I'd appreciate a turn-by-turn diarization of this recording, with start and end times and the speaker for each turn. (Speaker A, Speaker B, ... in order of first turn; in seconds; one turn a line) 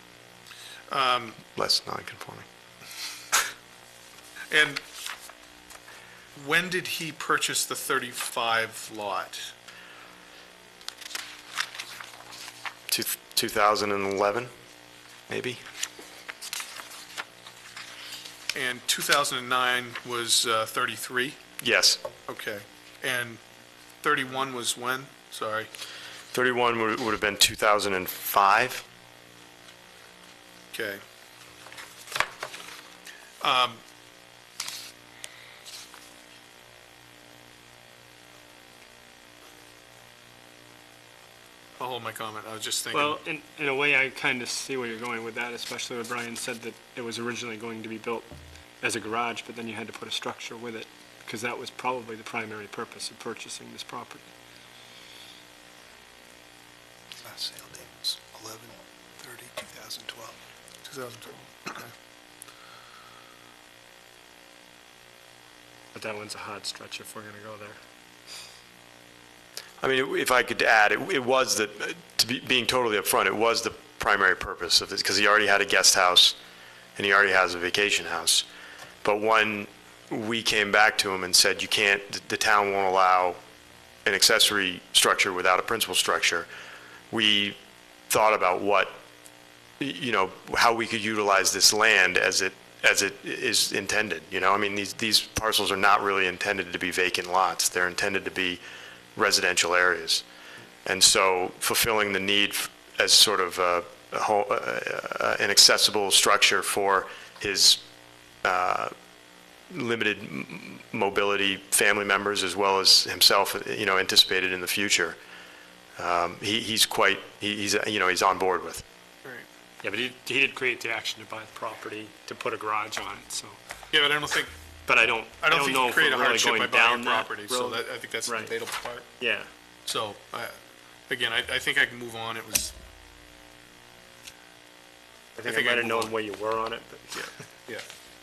Speaker A: 0.9-1.4
Speaker B: 1.5-2.5
Speaker A: 4.5-4.8
Speaker A: 6.3-9.5
Speaker B: 12.9-14.5
Speaker B: 15.3-15.6
Speaker A: 18.5-21.4
Speaker B: 21.6-22.0
Speaker A: 22.3-23.4
Speaker A: 24.0-25.7
Speaker B: 26.3-28.8
Speaker A: 30.7-31.0
Speaker A: 33.4-33.8
Speaker A: 41.8-43.2
Speaker C: 42.9-54.3
Speaker D: 57.2-60.4
Speaker A: 60.8-61.9
Speaker C: 65.9-67.8
Speaker B: 69.8-76.4
Speaker B: 77.0-78.5
Speaker B: 79.0-83.4
Speaker B: 84.0-86.5
Speaker B: 87.1-87.6
Speaker B: 88.1-89.0
Speaker B: 89.8-98.6
Speaker B: 99.2-100.2
Speaker B: 100.8-107.8
Speaker B: 108.4-108.9
Speaker B: 109.7-115.2
Speaker B: 116.0-118.8
Speaker C: 119.8-123.6
Speaker A: 123.9-124.5
Speaker C: 124.9-128.6
Speaker A: 125.4-129.1
Speaker C: 129.2-129.5
Speaker A: 129.8-130.6
Speaker A: 131.1-132.7
Speaker C: 135.4-137.3
Speaker A: 135.4-136.1
Speaker A: 137.1-137.9